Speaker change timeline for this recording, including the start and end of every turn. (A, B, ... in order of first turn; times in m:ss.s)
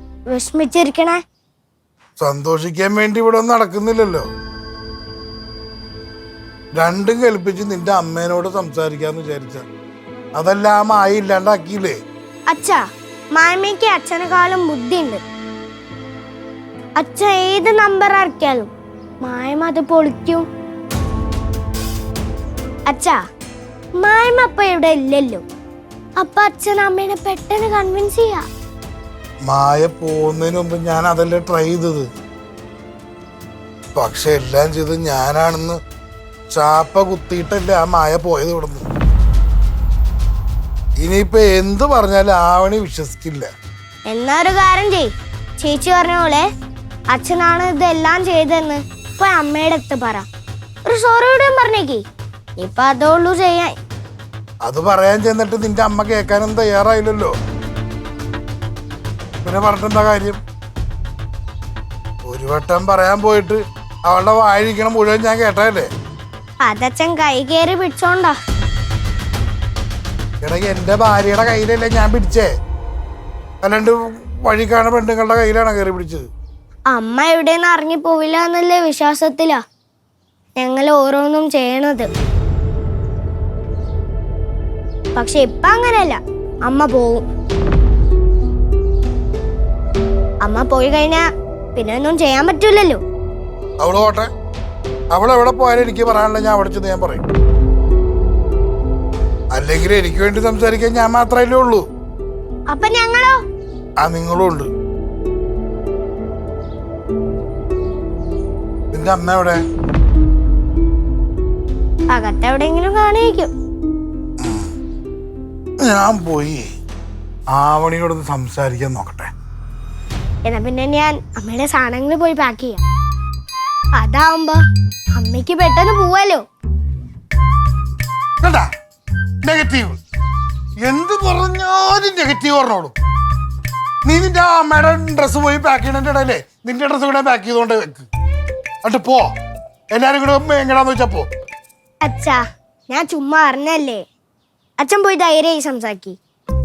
0:00.3-0:01.2 A
0:02.2-0:04.3 B
0:06.8-0:09.7 B
0:10.4-0:12.0 B
0:12.5-0:12.8 A
0:13.3-0:15.2 A
0:17.0-0:18.7 A
0:19.2-0:20.4 A
0:22.9-0:23.2 A
0:24.0-0:25.4 A
0:26.2-0:28.4 A
0:29.5-0:32.1 B
0:34.0-0:35.8 B
0:36.5-0:38.9 B
0:41.0-0:43.5 B
0:44.1-0:46.5 A
0:47.1-0:50.3 A
0:50.9-0:52.0 A
0:52.6-0:53.7 A
0:54.6-0:57.3 B
0:59.4-1:00.4 B
1:02.3-1:05.9 B
1:06.6-1:08.4 A
1:10.4-1:12.5 B
1:13.6-1:16.3 B
1:16.9-1:19.6 A
1:20.6-1:22.1 A
1:25.2-1:27.2 A
1:30.4-1:33.0 A
1:33.8-1:34.3 B
1:35.1-1:37.2 B
1:39.5-1:41.8 B
1:42.7-1:43.4 A
1:44.0-1:44.7 B
1:48.9-1:49.6 B
1:52.1-1:53.5 A
1:54.4-1:54.7 B
1:55.8-1:56.7 B
1:57.5-1:59.3 B
2:00.4-2:02.8 A
2:04.0-2:04.6 A
2:05.1-2:06.4 A
2:08.4-2:08.7 B
2:09.4-2:10.0 B
2:10.8-2:12.9 B
2:14.0-2:18.1 B
2:18.8-2:19.3 B
2:19.9-2:21.3 B
2:22.0-2:24.0 A
2:24.8-2:26.2 A